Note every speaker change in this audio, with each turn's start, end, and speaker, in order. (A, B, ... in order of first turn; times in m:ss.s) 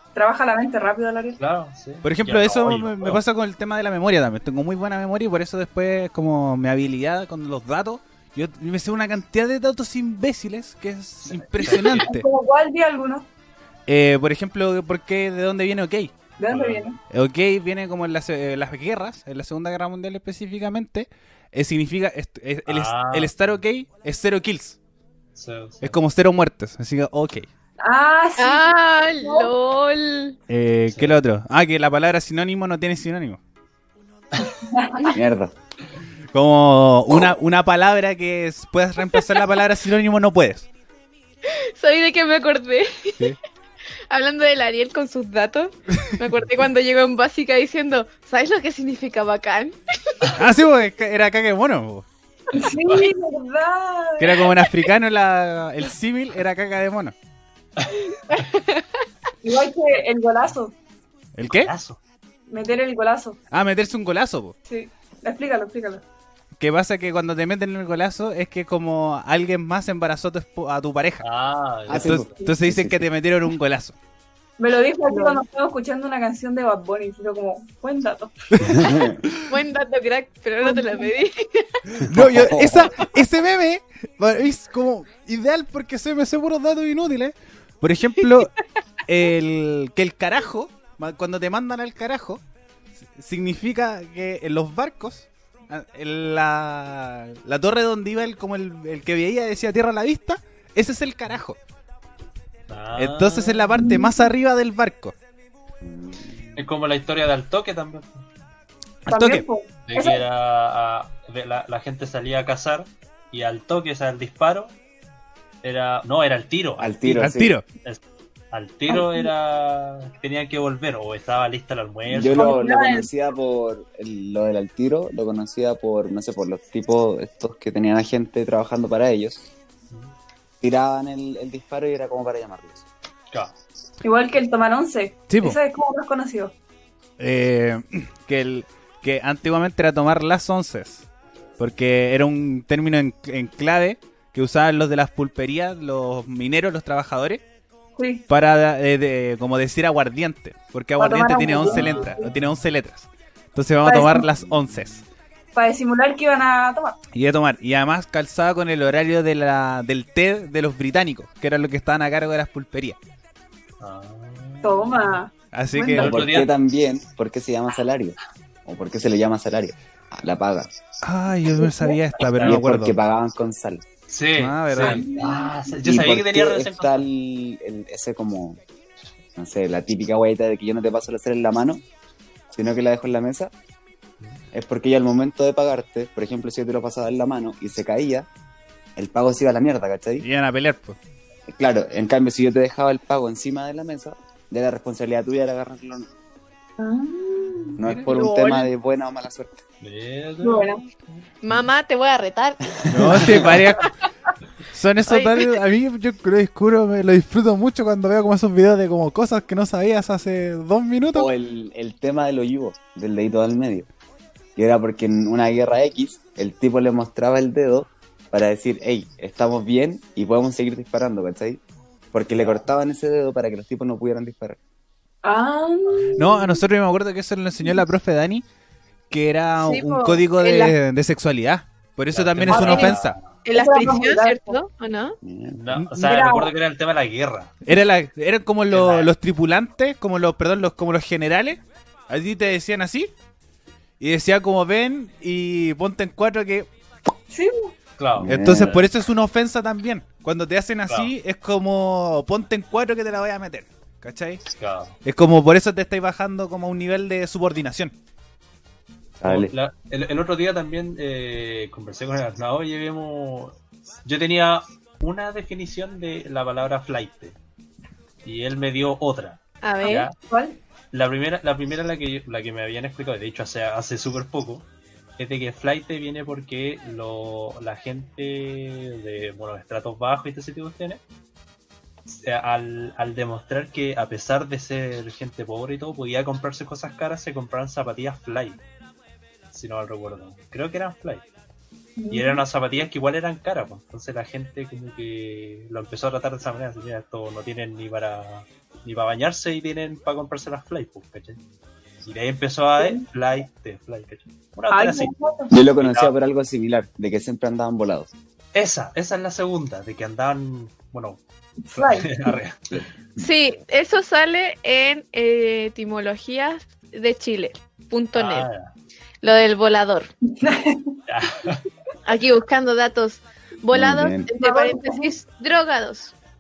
0:00.1-0:01.4 A
0:01.4-0:03.2 B
0:02.0-0:12.3 C
0:11.2-0:12.1 B
0:11.8-0:13.3 A
0:13.9-0:16.1 C
0:16.4-0:17.0 A
0:16.5-0:16.9 B
0:17.1-0:24.8 C
0:22.6-0:23.4 B
0:25.3-0:26.0 B
0:25.8-0:27.5 C
0:27.8-0:29.5 A
0:28.4-0:30.4 D
0:30.5-0:33.4 C
0:30.9-0:31.1 B
0:34.6-0:35.1 A
0:35.1-0:35.5 E
0:36.3-0:40.7 C
0:41.5-0:43.3 D
0:44.1-0:49.8 D
0:50.4-0:52.0 C
0:52.5-0:54.6 A
0:52.8-0:53.0 B
0:54.2-0:57.1 C
0:58.3-0:58.8 D
0:59.4-1:00.7 A
1:01.4-1:01.7 C
1:01.4-1:02.0 B
1:02.5-1:03.4 A
1:03.5-1:04.5 C
1:04.7-1:06.0 A
1:06.6-1:11.2 C
1:11.2-1:12.3 B
1:11.9-1:13.9 C
1:11.9-1:13.0 E
1:14.6-1:18.9 A
1:18.5-1:19.5 C
1:18.7-1:19.2 E
1:19.5-1:22.0 D
1:20.6-1:21.1 A
1:22.0-1:28.5 C
1:22.0-1:22.9 E
1:29.1-1:32.4 C
1:33.1-1:41.6 C
1:42.7-1:43.8 B
1:43.0-1:45.1 C
1:43.7-1:44.1 A
1:45.8-1:46.6 E
1:46.6-1:48.2 B
1:49.0-1:49.4 C
1:49.1-1:50.2 A
1:49.9-1:54.7 B
1:55.6-1:57.3 B
1:56.8-1:57.5 E
1:57.1-1:57.6 C
1:58.5-2:02.6 B
1:58.9-1:59.3 A
2:02.1-2:09.5 E
2:02.3-2:03.1 A
2:10.6-2:12.8 E
2:14.0-2:16.5 A
2:15.3-2:15.6 C
2:17.2-2:21.0 C
2:21.6-2:27.4 C
2:28.0-2:28.2 A
2:28.3-2:35.0 C
2:31.0-2:32.3 A
2:31.6-2:32.1 B
2:33.8-2:34.3 A
2:35.5-2:37.0 A
2:37.1-2:43.0 C
2:43.8-2:45.2 B
2:44.6-2:46.1 A
2:45.5-2:46.2 C
2:46.0-2:46.5 B
2:46.0-2:50.7 E
2:51.0-2:52.9 C
2:51.6-2:51.9 A
2:52.2-2:52.6 B
2:52.4-2:53.8 E
2:54.1-2:57.0 B
2:54.4-2:55.0 C
2:54.7-2:55.5 A
2:55.8-2:58.6 E
2:59.4-3:01.8 E
3:02.5-3:03.5 E
3:04.5-3:08.3 E
3:09.0-3:10.2 E
3:10.2-3:11.0 C
3:11.5-3:16.1 E
3:16.8-3:18.5 A
3:17.8-3:19.6 E
3:18.1-3:18.6 D
3:19.8-3:20.9 B
3:20.4-3:20.8 A
3:21.4-3:23.9 D
3:22.8-3:23.5 E
3:22.9-3:23.9 C
3:24.7-3:31.3 C
3:25.1-3:25.6 D
3:31.1-3:33.9 E
3:34.6-3:41.6 E
3:42.1-3:44.6 E
3:42.3-3:42.6 B
3:45.2-3:46.6 A
3:46.2-3:48.4 C
3:49.1-3:53.2 C
3:49.6-3:50.7 D
3:52.1-3:53.3 B
3:52.5-3:52.9 A
3:52.7-3:52.9 D
3:53.4-3:55.2 D
3:53.5-3:54.6 A
3:55.2-3:55.6 E
3:55.6-3:57.5 B
3:56.0-3:56.5 A
3:57.6-4:03.1 C
3:58.7-3:59.1 B
4:04.0-4:06.7 C
4:07.3-4:07.7 A
4:08.0-4:08.8 B
4:08.2-4:08.8 E
4:08.2-4:14.4 C
4:14.6-4:15.0 B
4:15.0-4:17.9 C
4:19.2-4:19.5 E
4:19.2-4:27.4 B
4:28.2-4:30.1 B
4:29.6-4:30.1 D
4:30.1-4:30.6 A
4:30.9-4:34.6 B
4:35.2-4:41.0 B
4:42.1-4:48.6 B
4:49.5-4:51.2 B
4:52.0-4:52.4 A
4:52.1-5:01.4 B
5:02.0-5:06.1 B
5:02.8-5:03.0 A
5:04.7-5:05.5 A
5:05.5-5:08.1 E
5:08.5-5:11.2 B
5:11.6-5:12.3 A
5:11.8-5:12.8 B
5:12.7-5:13.2 E
5:13.2-5:18.5 D
5:18.1-5:18.7 B
5:19.2-5:20.1 D
5:20.3-5:21.0 A
5:21.1-5:21.6 B
5:22.0-5:26.1 D
5:23.7-5:24.3 E
5:24.4-5:25.2 A